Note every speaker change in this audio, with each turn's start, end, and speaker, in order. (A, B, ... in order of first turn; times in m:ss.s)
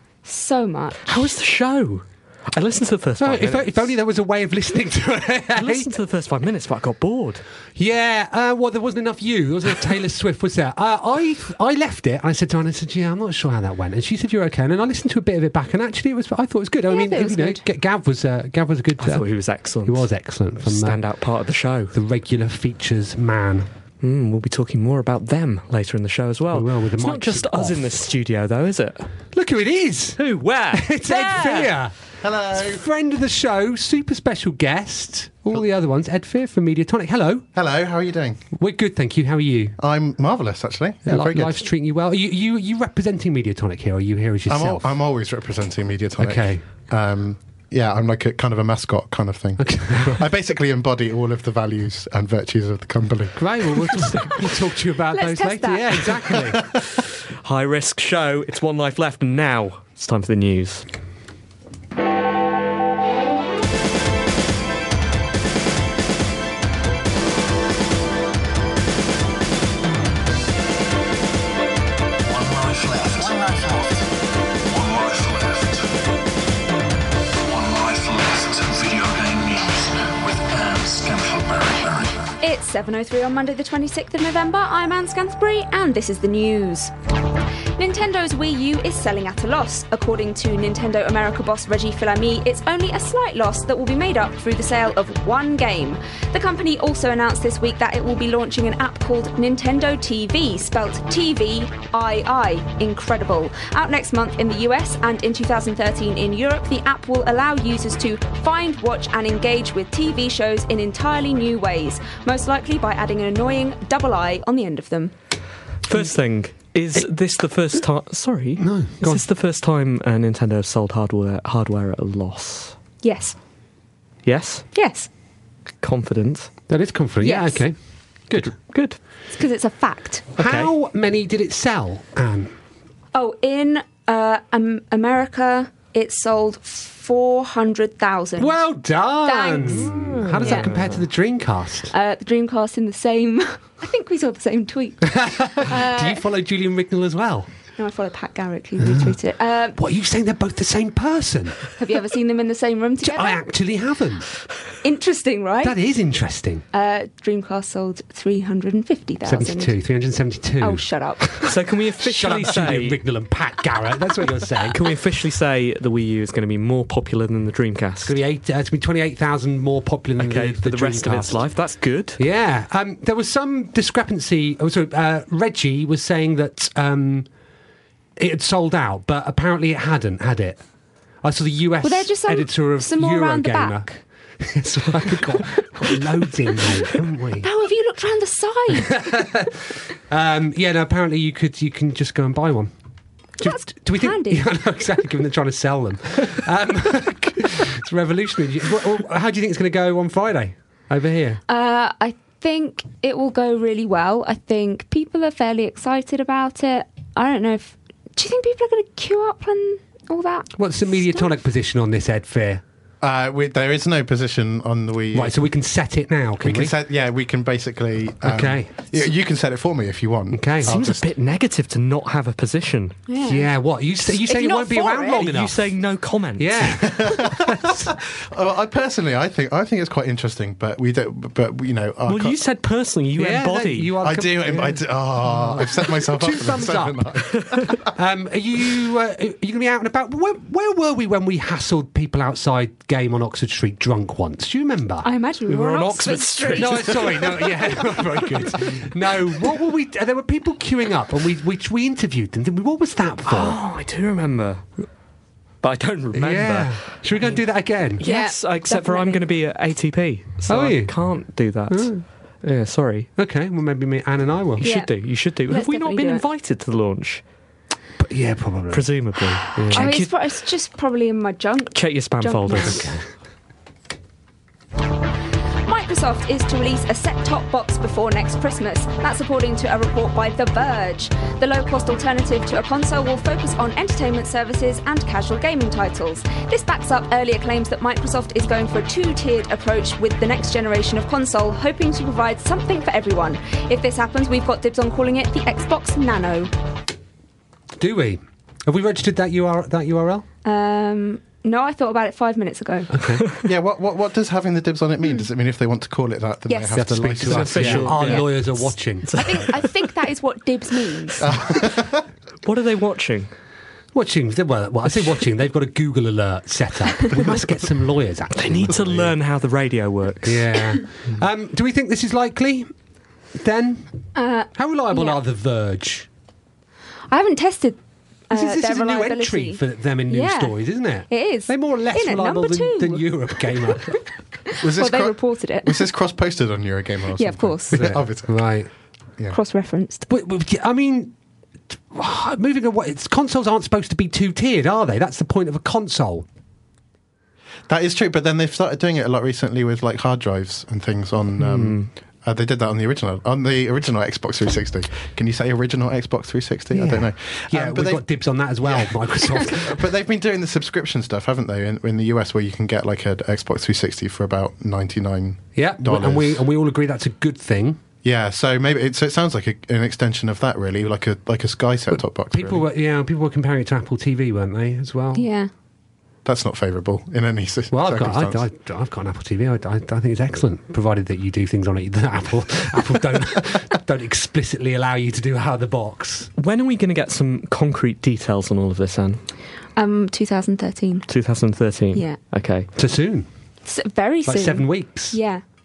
0:00.2-0:01.3 A
0:01.0-0:03.9 B
0:03.2-0:05.9 C
0:05.6-0:07.4 B
0:07.8-0:19.3 C
0:16.9-0:17.6 A
0:19.0-0:20.1 B
0:19.8-0:21.0 C
0:20.6-0:21.9 B
0:21.9-0:23.7 C
0:24.0-0:29.1 B
0:26.5-0:27.8 C
0:29.3-0:30.2 C
0:30.2-0:31.7 B
0:30.7-0:32.0 C
0:32.2-0:32.8 D
0:32.6-0:37.4 C
0:37.5-0:38.4 D
0:38.6-0:39.8 C
0:39.8-0:41.7 D
0:41.0-0:45.0 C
0:44.5-0:54.2 D
0:46.2-0:46.6 C
0:49.6-0:50.2 C
0:53.4-0:56.7 C
0:55.1-0:56.4 A
0:57.4-1:00.8 B
1:12.2-1:14.1 E
1:14.6-1:16.0 E
1:17.4-1:22.4 E
1:22.4-1:26.9 A
1:27.8-1:55.1 A
1:55.8-2:02.8 B
1:58.6-1:59.2 C
2:03.0-2:03.4 A
2:04.2-2:04.6 B
2:04.7-2:05.1 A
2:05.8-2:06.5 B
2:06.7-2:07.7 C
2:07.2-2:07.6 A
2:08.3-2:08.5 C
2:08.4-2:09.0 B
2:09.3-2:10.3 A
2:10.4-2:10.7 B
2:10.4-2:12.5 C
2:13.1-2:18.6 A
2:18.4-2:21.9 C
2:19.2-2:20.7 A
2:20.3-2:21.0 B
2:21.9-2:26.2 A
2:25.1-2:27.5 C
2:27.8-2:29.8 A
2:28.8-2:29.2 C
2:29.8-2:31.7 C
2:31.8-2:33.4 A
2:33.0-2:34.3 C
2:34.8-2:35.8 A
2:35.6-2:36.6 C
2:36.7-2:39.7 A
2:39.2-2:41.5 C
2:40.6-2:41.4 A
2:41.4-2:43.0 B
2:42.0-2:44.8 C
2:44.7-2:48.2 B
2:48.0-2:51.4 C
2:50.2-2:52.2 B
2:52.2-2:57.3 C
2:58.2-3:00.6 C
3:01.2-3:03.8 C
3:01.8-3:04.0 A
3:04.4-3:07.5 C
3:07.4-3:09.0 A
3:08.8-3:12.7 C
3:13.4-3:14.5 A
3:13.4-3:21.4 C
3:21.5-3:31.3 A
3:30.6-3:32.6 C
3:33.0-3:35.4 D
3:35.1-3:36.7 C
3:36.4-3:41.0 D
3:38.2-3:38.7 C
3:40.3-3:40.7 C
3:40.6-3:43.0 B
3:43.1-3:43.5 A
3:43.2-3:45.6 C
3:44.2-3:45.3 A
3:45.2-3:46.8 B
3:46.4-3:47.9 C
3:46.8-3:52.4 D
3:52.1-3:53.9 B
3:53.2-4:05.1 C
3:54.0-3:57.8 D
4:05.0-4:07.2 A
4:05.5-4:06.9 B
4:06.5-4:13.6 C
4:13.3-4:14.6 B
4:15.6-4:17.4 B
4:16.1-4:18.0 C
4:18.0-4:21.9 B
4:18.0-4:19.2 A
4:20.5-4:20.9 C
4:21.7-4:22.0 C
4:22.4-4:23.1 B
4:23.2-4:24.6 C
4:24.6-4:27.2 B
4:24.6-4:24.9 A
4:25.5-4:26.2 A
4:28.0-4:28.9 C
4:28.7-4:30.1 B
4:29.5-4:30.0 C
4:29.7-4:32.9 A
4:31.8-4:32.9 B
4:32.5-4:33.0 C
4:35.6-4:56.5 A
4:57.8-5:00.2 C
5:00.4-5:02.9 A
5:02.9-5:03.2 C
5:03.2-5:03.4 B
5:03.4-5:08.1 D
5:06.5-5:06.8 A
5:06.8-5:09.2 C
5:07.2-5:09.6 B
5:08.0-5:08.3 A
5:09.1-5:11.3 A
5:11.2-5:12.0 D
5:12.4-5:13.3 B
5:13.9-5:19.1 C
5:18.4-5:20.6 B
5:20.2-5:22.7 C
5:23.4-5:23.9 C
5:24.1-5:25.2 A
5:24.6-5:26.1 C
5:27.1-5:30.6 A
5:28.3-5:33.9 C
5:31.1-5:33.6 A
5:34.5-5:35.8 A
5:34.6-5:38.4 D
5:37.2-5:37.8 A
5:37.7-5:38.7 C
5:39.3-5:40.1 A
5:40.1-5:41.1 C
5:41.9-5:46.2 C
5:47.7-5:58.1 D
5:51.4-5:51.9 B
5:56.7-5:59.8 C
5:58.6-6:06.5 D
6:05.6-6:07.8 C
6:08.0-6:12.6 D
6:12.0-6:15.3 C
6:15.1-6:15.5 A
6:16.2-6:18.5 D
6:17.7-6:26.3 C
6:26.4-6:29.2 B
6:29.8-6:31.1 A
6:31.1-6:32.7 B
6:32.8-6:33.3 C
6:33.6-6:35.4 A
6:34.2-6:35.2 C